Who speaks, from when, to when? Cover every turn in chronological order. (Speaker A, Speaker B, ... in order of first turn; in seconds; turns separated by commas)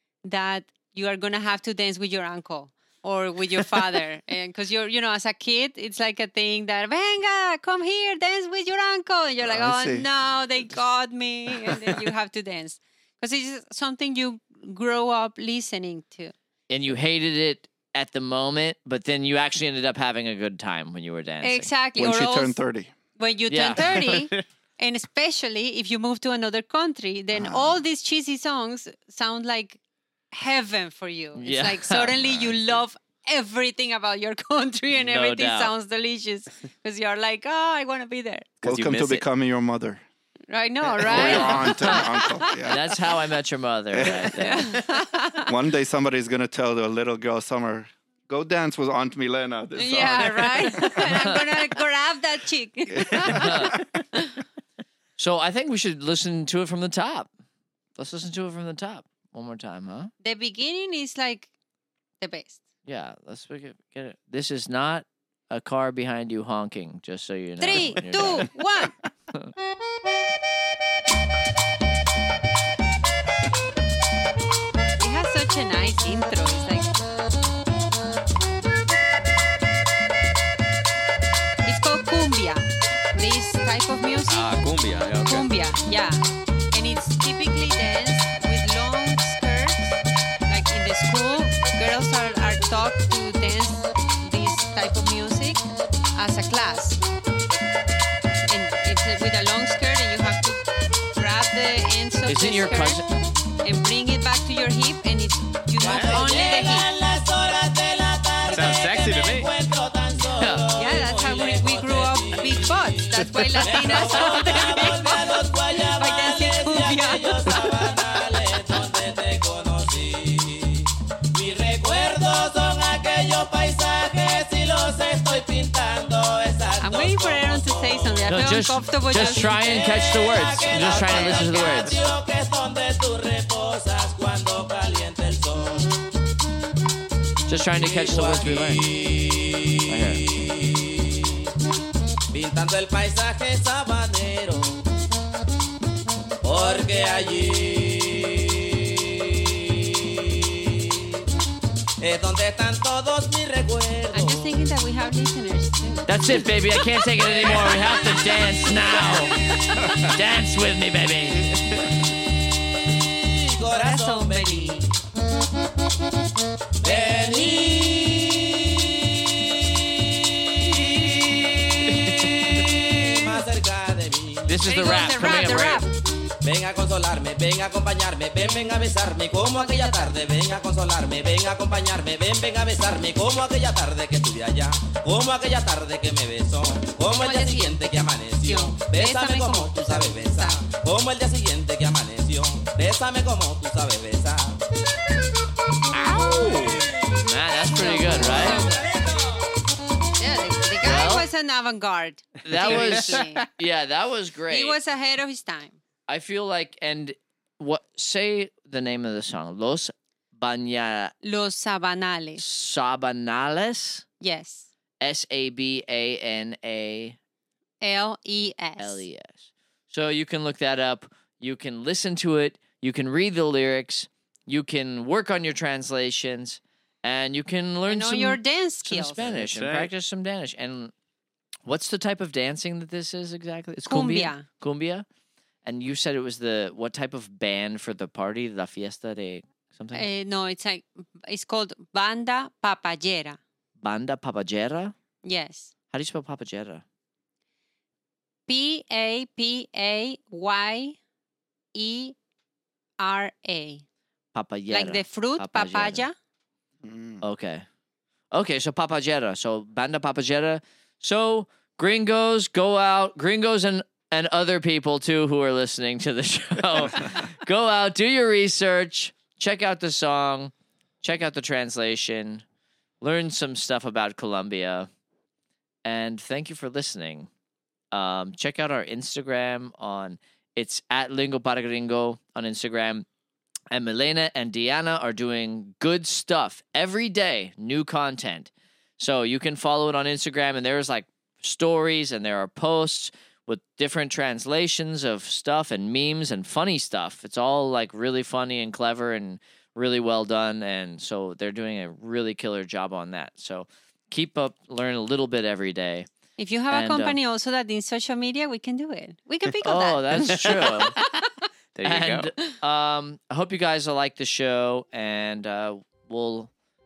Speaker A: 0.2-16.3, Speaker B: 9.4-10.1, Speaker C: 16.7-21.7, Speaker A: 21.4-22.6, Speaker B: 22.0-22.9, Speaker A: 23.2-29.8, Speaker C: 23.5-24.3, Speaker B: 27.3-27.8, Speaker A: 30.3-38.5, Speaker C: 31.4-32.8, Speaker C: 35.0-35.7, Speaker D: 38.6-39.2, Speaker B: 38.6-40.0, Speaker A: 40.5-42.5, Speaker B: 41.0-42.8, Speaker C: 41.0-42.1, Speaker C: 42.6-44.8, Speaker B: 43.9-44.4, Speaker A: 44.3-45.5, Speaker B: 45.4-51.3, Speaker A: 49.8-54.4, Speaker B: 52.9-53.8, Speaker C: 53.3-53.8, Speaker C: 55.2-57.3, Speaker C: 58.0-60.1, Speaker A: 60.2-61.5, Speaker A: 62.2-62.6, Speaker C: 62.9-68.7, Speaker A: 67.6-69.0, Speaker A: 75.0-76.9, Speaker A: 81.6-84.7, Speaker D: 84.3-85.5, Speaker A: 85.2-95.6, Speaker A: 96.2-97.0, Speaker A: 98.5-100.6, Speaker A: 101.2-103.0, Speaker C: 102.3-103.1, Speaker A: 103.6-106.9, Speaker D: 105.8-106.2, Speaker E: 105.8-128.4, Speaker D: 108.5-109.5, Speaker C: 110.4-110.7, Speaker A: 110.7-115.4, Speaker A: 116.0-117.8, Speaker A: 126.8-129.6, Speaker C: 128.3-132.0, Speaker E: 129.1-136.0, Speaker A: 130.8-132.0, Speaker C: 137.5-138.9, Speaker E: 137.8-141.4, Speaker C: 139.9-140.3, Speaker E: 142.3-144.8, Speaker E: 146.4-151.1, Speaker E: 152.0-154.6, Speaker A: 154.1-156.5, Speaker C: 156.1-161.8, Speaker E: 157.4-158.2, Speaker E: 162.9-165.0, Speaker A: 163.6-164.9, Speaker E: 166.8-174.6, Speaker A: 172.8-173.3, Speaker C: 174.5-175.9, Speaker A: 174.7-175.9, Speaker E: 176.4-194.6, Speaker A: 178.4-178.7, Speaker A: 179.6-180.2, Speaker A: 187.2-190.6, Speaker C: 195.9-198.7, Speaker A: 197.7-198.9, Speaker A: 200.2-203.5, Speaker C: 200.8-201.3, Speaker C: 202.4-204.8, Speaker D: 202.6-203.1, Speaker A: 204.5-205.8, Speaker C: 206.1-211.1, Speaker A: 211.2-212.4, Speaker C: 212.4-214.1, Speaker A: 214.2-214.7, Speaker C: 215.0-217.2, Speaker A: 217.8-219.1, Speaker C: 218.8-230.9, Speaker A: 227.9-229.2, Speaker D: 229.2-229.9, Speaker C: 231.7-235.1, Speaker A: 233.9-234.5, Speaker C: 235.6-240.1, Speaker A: 239.9-243.4, Speaker C: 243.8-244.9, Speaker A: 245.2-245.7, Speaker C: 245.9-246.8, Speaker A: 248.5-251.0, Speaker A: 251.8-252.2, Speaker A: 253.0-253.8, Speaker C: 254.3-256.1, Speaker A: 254.7-256.1, Speaker B: 256.8-257.2, Speaker C: 257.2-257.6, Speaker C: 258.3-272.4, Speaker C: 273.0-274.9, Speaker C: 275.9-277.3, Speaker C: 277.9-283.1, Speaker C: 283.7-306.1, Speaker A: 306.4-311.4, Speaker C: 306.7-307.2, Speaker C: 309.6-311.0, Speaker D: 310.3-311.0, Speaker D: 311.8-312.5, Speaker C: 311.8-316.5